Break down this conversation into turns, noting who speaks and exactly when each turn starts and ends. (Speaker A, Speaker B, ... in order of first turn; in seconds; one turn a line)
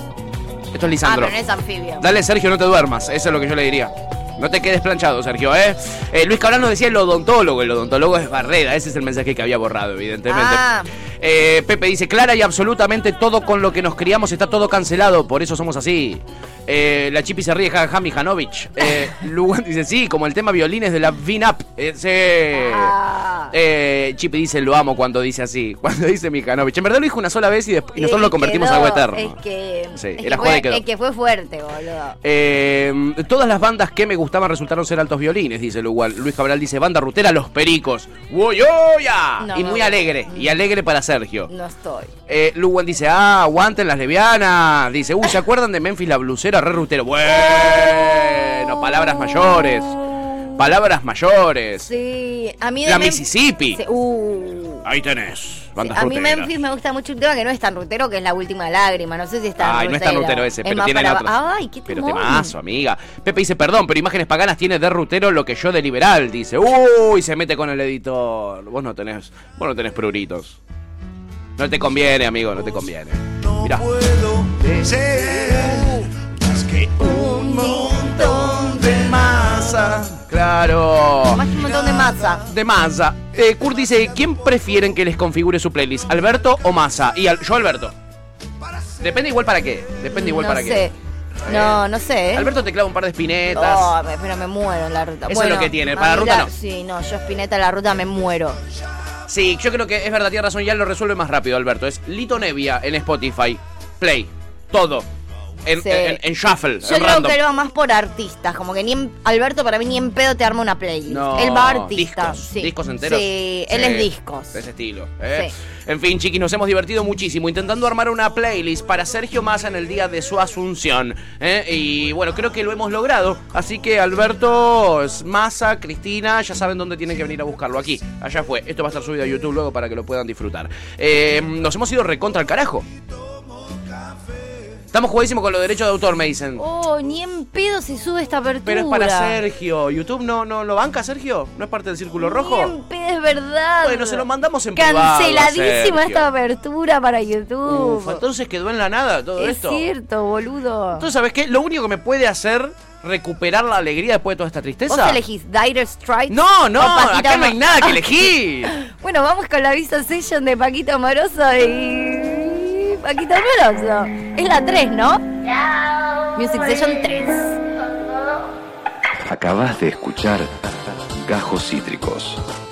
Speaker A: 0.7-1.4
Speaker B: 1.0-2.1
Speaker A: 2.0-10.6
Speaker B: 10.3-10.9
Speaker A: 11.2-22.9
Speaker B: 22.5-23.5
Speaker A: 23.5-29.4
Speaker B: 28.0-32.2
Speaker A: 29.9-30.8
Speaker A: 32.2-41.5
Speaker B: 39.4-40.6
Speaker B: 41.5-42.1
Speaker A: 42.3-50.0
Speaker B: 49.1-50.7
Speaker A: 50.6-51.9
Speaker B: 51.8-54.9
Speaker A: 52.8-53.8
Speaker A: 54.8-56.5
Speaker B: 55.8-62.5
Speaker A: 59.6-61.3
Speaker A: 61.9-70.6
Speaker A: 71.6-87.9
Speaker B: 77.0-78.9
Speaker B: 81.3-82.4
Speaker A: 89.0-90.9
Speaker B: 90.1-90.9
Speaker A: 91.5-91.8
Speaker B: 91.5-92.5
Speaker A: 92.3-93.9
Speaker B: 93.5-98.6
Speaker A: 95.3-96.5
Speaker A: 99.3-105.1
Speaker A: 105.7-107.4
Speaker B: 105.8-106.2
Speaker B: 106.8-114.6
Speaker A: 111.1-132.9
Speaker A: 134.9-136.6
Speaker B: 136.6-139.4
Speaker A: 138.6-142.7
Speaker B: 142.2-148.2
Speaker A: 143.8-146.3
Speaker A: 147.6-149.9
Speaker B: 149.4-151.1
Speaker A: 151.0-155.2
Speaker B: 154.9-158.0
Speaker A: 156.3-158.7
Speaker B: 158.7-165.4
Speaker B: 166.3-167.7
Speaker C: 169.2-172.4